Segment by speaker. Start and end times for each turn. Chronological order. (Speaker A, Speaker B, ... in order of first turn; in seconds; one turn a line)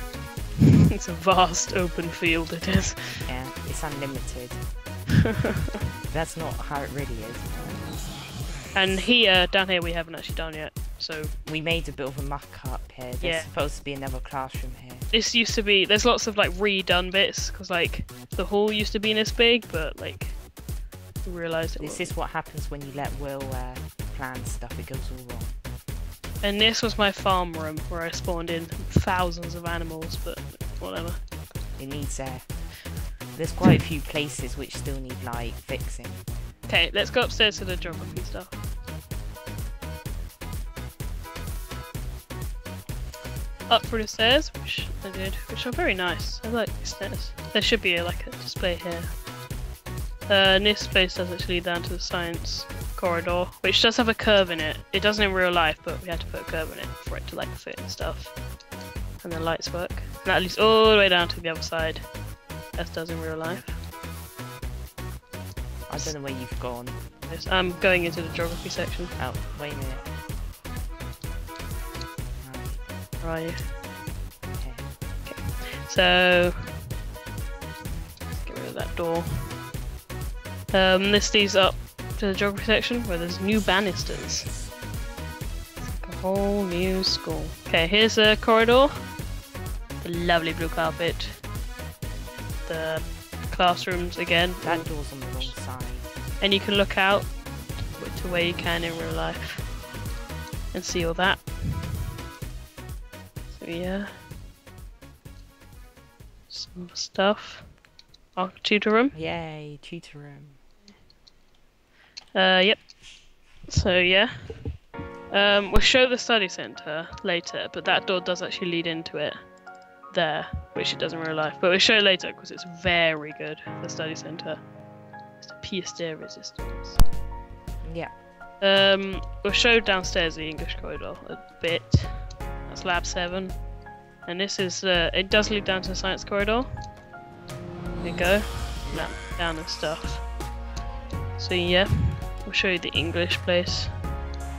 Speaker A: 1.0-3.3
Speaker B: 3.3-4.7
Speaker B: 6.1-8.0
Speaker A: 8.7-11.4
Speaker B: 11.4-15.1
Speaker A: 13.2-13.5
Speaker A: 15.1-20.5
Speaker A: 21.2-22.1
Speaker B: 21.8-25.6
Speaker A: 26.4-31.2
Speaker B: 31.8-36.3
Speaker A: 36.6-38.7
Speaker A: 43.7-49.2
Speaker A: 50.3-58.4
Speaker A: 59.2-63.8
Speaker B: 65.9-67.0
Speaker A: 65.9-66.2
Speaker A: 67.2-69.2
Speaker B: 69.2-70.1
Speaker B: 72.4-72.9
Speaker A: 73.2-73.8
Speaker B: 74.4-74.9
Speaker A: 75.2-76.9
Speaker A: 78.3-79.7
Speaker A: 80.7-84.6
Speaker A: 85.8-89.2
Speaker A: 90.0-91.5
Speaker A: 92.6-95.6
Speaker B: 94.6-96.1
Speaker A: 96.4-99.8
Speaker A: 100.7-102.0
Speaker A: 103.5-104.2
Speaker A: 106.5-107.8
Speaker A: 108.3-109.2
Speaker B: 109.1-110.6
Speaker A: 112.3-113.0
Speaker A: 113.6-124.8
Speaker A: 125.3-127.1
Speaker B: 127.8-128.2
Speaker A: 128.6-133.7
Speaker A: 134.2-137.0
Speaker A: 138.0-140.4
Speaker B: 138.8-139.2
Speaker A: 141.4-144.1